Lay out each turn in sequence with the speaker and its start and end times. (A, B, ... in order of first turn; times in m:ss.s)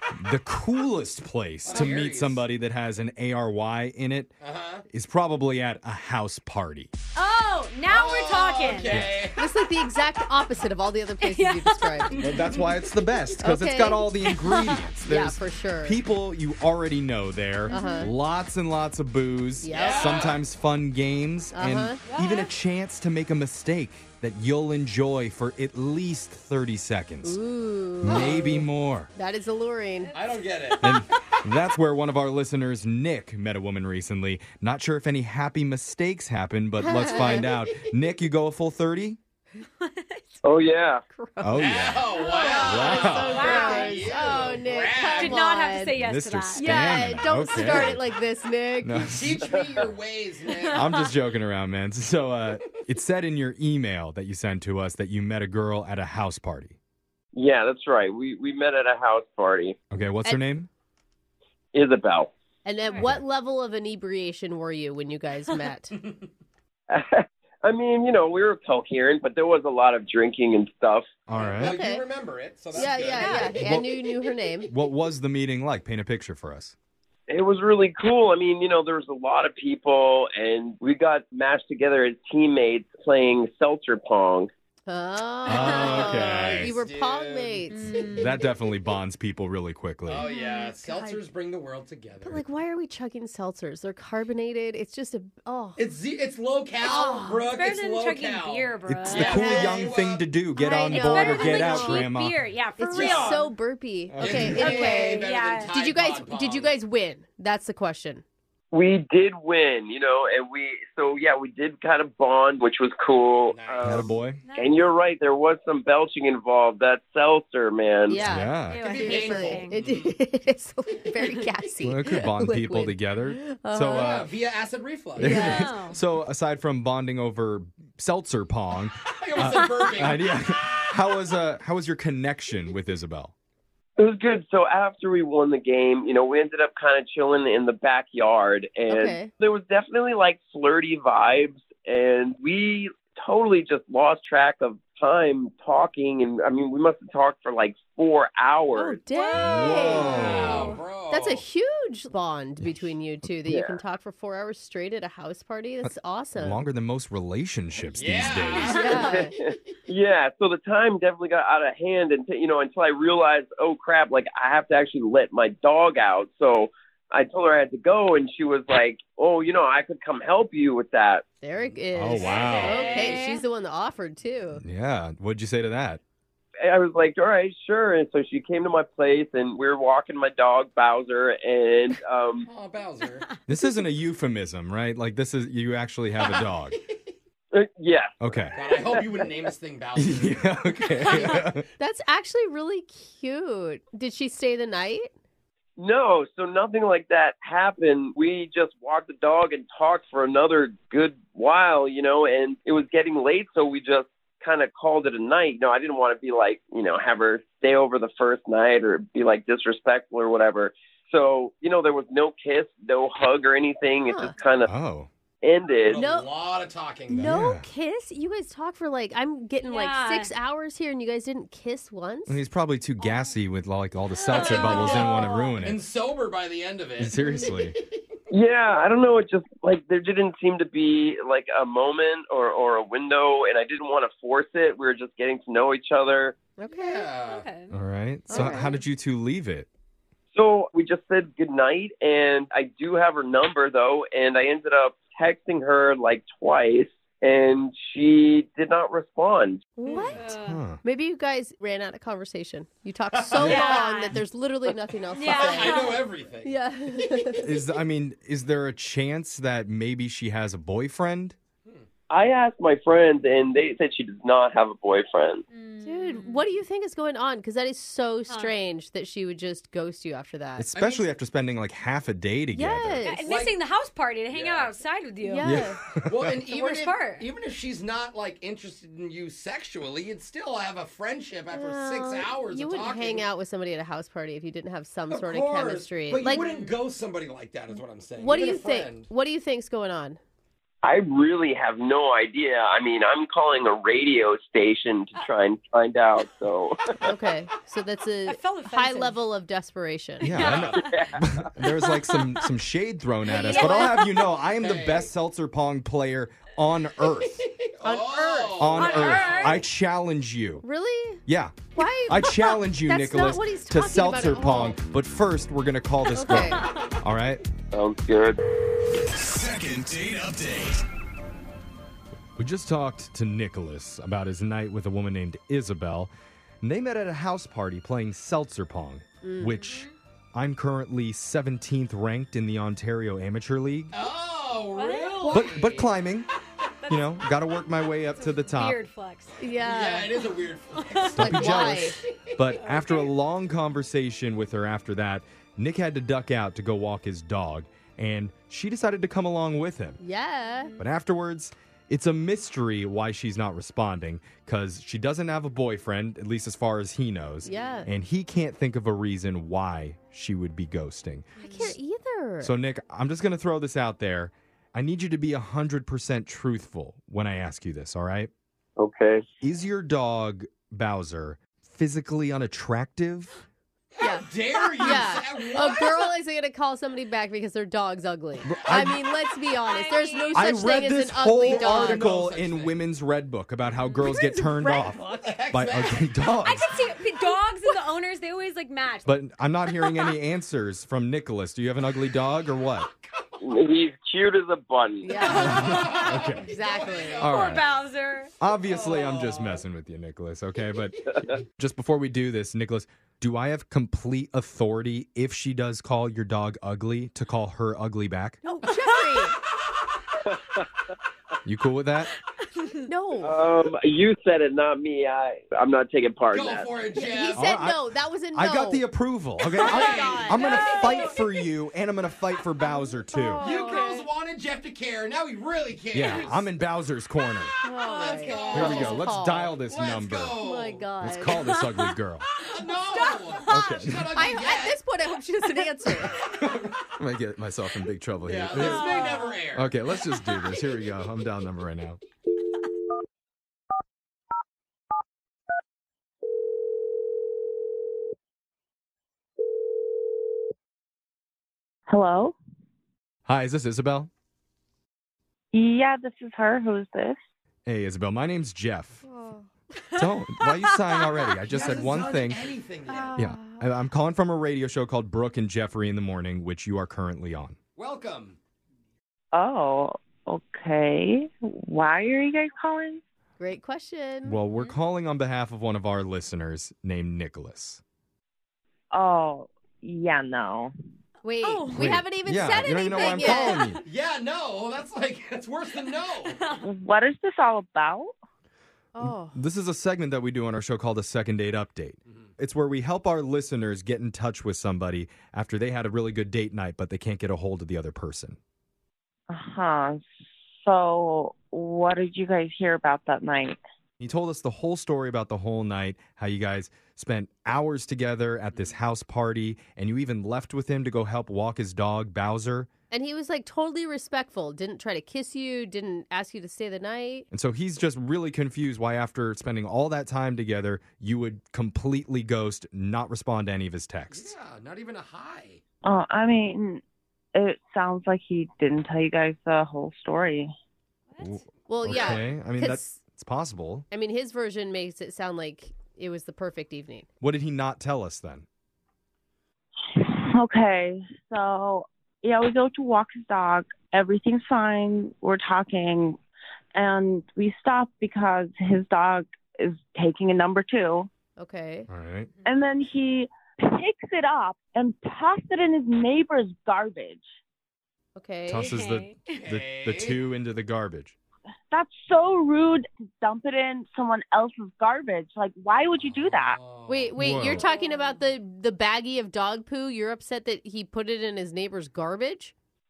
0:00.1-0:04.4 A
0:01.6-0:02.4 B
0:04.4-0:04.8 B
0:04.9-0:06.9 A
0:07.2-0:08.9 C
0:07.8-0:09.4 B
0:08.9-0:09.2 A
0:09.3-0:12.3 D
0:11.3-0:11.9 C
0:12.2-0:27.4 A
0:13.4-0:16.0 D
0:17.7-0:18.0 C
0:17.7-0:18.1 D
0:19.6-0:20.1 D
0:19.7-0:20.4 B
0:21.5-0:22.0 D
0:22.1-0:22.5 C
0:27.2-0:30.1 D
0:28.0-0:29.1 A
0:28.0-0:28.6 B
0:30.1-0:31.0 B
0:30.8-0:39.2 A
0:36.8-0:37.4 D
0:37.3-0:37.7 B
0:40.4-0:41.0 E
0:41.1-0:45.9 D
0:41.4-0:43.5 A
0:41.6-0:45.4 B
0:43.3-0:44.0 C
0:44.1-0:44.5 A
0:45.2-0:46.9 C
0:45.9-0:48.0 A
0:46.5-0:49.1 D
0:48.8-0:49.5 A
0:49.0-0:50.9 B
0:49.4-0:49.8 E
0:50.7-0:56.8 A
0:57.3-0:59.8 E
0:59.9-1:00.7 A
1:00.0-1:00.4 D
1:01.7-1:02.3 E
1:02.6-1:05.9 D
1:06.9-1:11.1 E
1:11.3-1:11.8 A
1:11.3-1:14.1 B
1:11.6-1:12.0 D
1:12.7-1:14.7 D
1:14.7-1:16.7 A
1:17.3-1:24.5 E
1:24.9-1:28.0 D
1:25.4-1:26.8 A
1:25.4-1:28.3 B
1:27.8-1:28.2 C
1:28.2-1:30.3 A
1:30.0-1:32.4 B
1:30.3-1:31.2 D
1:32.2-1:35.8 D
1:35.8-1:40.2 B
1:36.8-1:37.4 D
1:37.5-1:39.8 C
1:38.8-1:42.4 A
1:40.6-1:42.1 D
1:40.9-1:43.3 C
1:42.8-1:48.2 D
1:42.9-1:43.5 B
1:44.1-1:44.8 A
1:44.2-1:46.7 B
1:44.6-1:45.7 C
1:48.7-1:58.2 E
1:53.5-1:54.2 B
1:53.8-1:54.4 A
1:54.4-1:54.8 C
1:58.1-2:04.3 D
1:58.2-1:58.8 A
1:58.7-2:00.1 B
1:58.7-1:59.8 C
2:01.8-2:04.2 A
2:03.9-2:05.7 B
2:05.2-2:13.3 A
2:05.2-2:05.7 D
2:05.6-2:06.0 C
2:09.0-2:10.8 B
2:14.0-2:29.0 E
2:18.9-2:19.3 D
2:28.8-2:36.6 D
2:29.1-2:30.7 C
2:29.3-2:30.8 A
2:30.1-2:31.4 B
2:32.6-2:33.0 A
2:33.5-2:33.8 E
2:35.8-2:39.0 A
2:37.9-2:39.3 B
2:38.7-2:39.3 D
2:38.9-2:51.2 E
2:51.4-2:54.6 D
2:51.7-2:53.2 B
2:51.9-2:52.8 A
2:52.5-2:53.4 C
2:54.6-2:56.0 A
2:56.6-3:02.5 E
3:02.4-3:03.2 B
3:03.5-3:06.8 A
3:06.2-3:07.1 B
3:07.5-3:09.0 E
3:08.2-3:08.6 A
3:08.5-3:11.4 B
3:10.0-3:11.6 A
3:11.8-3:15.1 D
3:15.8-3:34.7 E
3:34.1-3:34.3 D
3:34.6-3:35.1 A
3:35.4-3:36.0 E
3:35.8-3:37.3 B
3:36.0-3:36.3 D
3:37.1-3:42.4 D
3:37.2-3:37.7 A
3:39.6-3:40.3 C
3:42.3-3:45.8 A
3:44.3-3:45.4 C
3:44.3-3:48.0 B
3:44.7-3:45.2 D
3:47.0-3:47.8 A
3:48.3-3:56.4 E
3:56.6-3:57.1 D
3:56.7-3:57.5 B
3:57.2-3:57.7 C
3:57.7-3:59.7 A
3:58.3-3:58.8 D
4:00.3-4:09.6 E
4:09.8-4:17.5 D
4:10.2-4:10.6 C
4:10.4-4:10.8 A
4:13.1-4:13.9 B
4:13.4-4:14.2 C
4:15.2-4:17.2 B
4:15.2-4:15.5 C
4:17.4-4:21.4 A
4:22.1-4:25.4 E
4:25.5-4:26.4 C
4:25.8-4:30.7 D
4:30.6-4:33.0 A
4:30.7-4:31.0 B
4:32.5-4:33.3 D
4:33.0-4:35.5 C
4:33.2-4:33.6 B
4:34.3-4:34.8 B
4:35.2-4:35.8 D
4:35.4-4:36.4 A
4:35.5-4:43.3 B
4:36.5-4:37.2 C
4:41.5-4:46.4 D
4:45.1-4:49.1 B
4:48.2-4:50.2 D
4:50.8-4:56.8 E
4:57.0-5:00.3 D
4:58.4-4:59.2 C
5:00.2-5:07.4 A
5:00.4-5:00.8 B
5:00.6-5:01.4 E
5:03.3-5:04.2 C
5:03.5-5:03.9 D
5:04.5-5:05.1 B
5:07.1-5:09.6 B
5:07.8-5:09.4 D
5:08.6-5:10.6 A
5:08.8-5:09.6 C
5:10.6-5:11.2 D
5:11.2-5:17.4 A
5:11.7-5:14.8 D
5:16.1-5:16.7 D
5:17.7-5:18.4 E
5:19.2-5:20.8 B
5:22.4-5:33.9 A
5:29.2-5:29.6 D
5:29.6-5:29.9 C
5:33.9-5:35.9 B
5:34.8-5:35.3 C
5:35.3-5:36.3 A
5:36.9-5:38.8 A
5:38.1-5:39.4 C
5:39.4-5:40.2 D
5:39.5-5:42.5 B
5:40.7-5:41.1 C
5:41.1-5:50.0 A
5:41.2-5:42.0 D
5:50.0-5:50.8 D
5:50.8-6:01.8 A
5:57.4-5:57.9 D
6:01.4-6:02.5 D
6:02.4-6:08.3 A
6:08.8-6:09.2 E
6:09.4-6:13.3 A
6:14.0-6:16.1 B
6:14.0-6:14.3 D
6:14.8-6:22.1 D
6:18.4-6:19.0 A
6:19.6-6:20.4 C
6:20.3-6:26.7 A
6:21.3-6:22.8 B
6:24.0-6:24.9 D
6:24.7-6:26.3 B
6:26.4-6:29.1 C
6:27.2-6:27.8 D
6:29.0-6:32.9 A
6:32.6-6:33.4 B
6:33.4-6:35.2 E
6:35.0-6:37.3 D
6:35.1-6:37.7 B
6:35.3-6:36.5 A
6:35.7-6:36.0 C
6:37.2-6:37.6 A
6:37.3-6:38.3 C
6:38.4-6:48.4 A
6:38.6-6:39.6 B
6:48.4-6:49.3 D
6:50.3-6:50.6 E
6:51.4-6:52.1 A
6:52.8-6:53.4 D
6:53.2-6:56.7 E
6:56.3-6:57.5 B
6:56.9-6:58.8 D
6:57.3-7:03.4 A
6:59.6-7:01.1 C
6:59.6-7:01.1 B
7:02.7-7:03.9 D
7:03.4-7:06.5 B
7:05.9-7:07.5 A
7:07.6-7:09.7 D
7:07.7-7:10.9 B
7:08.2-7:08.6 F
7:08.5-7:10.4 A
7:10.2-7:11.6 D
7:11.0-7:12.3 A
7:12.4-7:14.8 B
7:12.9-7:13.8 C
7:13.5-7:14.2 A
7:14.1-7:16.2 D
7:16.0-7:16.9 B
7:17.0-7:22.0 A
7:18.2-7:19.7 B
7:31.9-7:32.4 F
7:33.2-7:34.1 A
7:35.5-7:37.2 F
7:37.6-7:39.0 A
7:39.0-7:39.5 D
7:40.0-7:42.5 A
7:41.5-7:43.3 B
7:42.9-7:43.5 D
7:43.1-7:47.6 A
7:47.8-7:48.4 B
7:49.3-7:53.0 F
7:53.4-7:54.4 D
7:54.2-7:57.8 A
7:58.9-8:00.7 F
8:01.2-8:03.8 D
8:01.4-8:01.7 C
8:01.7-8:03.8 A
8:02.6-8:06.4 B
8:02.9-8:03.2 C
8:06.3-8:06.6 C
8:06.6-8:08.1 F
8:08.9-8:09.4 D
8:09.0-8:18.4 A
8:19.3-8:20.0 F
8:20.6-8:23.6 F
8:24.0-8:32.7 A
8:32.9-8:37.3 D
8:37.3-8:44.3 A
8:44.1-8:45.6 B
8:45.8-8:46.8 F
8:47.3-8:50.5 F
8:51.1-8:51.4 C
8:51.2-8:53.9 A
8:51.7-8:53.0 D
8:53.9-8:57.1 D
8:57.2-8:58.4 A
8:59.9-9:06.2 F
9:06.7-9:11.1 F
9:11.4-9:11.9 D
9:11.9-9:12.3 A
9:12.4-9:17.2 F
9:18.2-9:18.7 D
9:18.5-9:21.1 A
9:18.7-9:19.3 C
9:19.4-9:20.2 B
9:21.7-9:26.6 F
9:25.9-9:27.7 B
9:26.9-9:32.5 D
9:27.2-9:27.6 A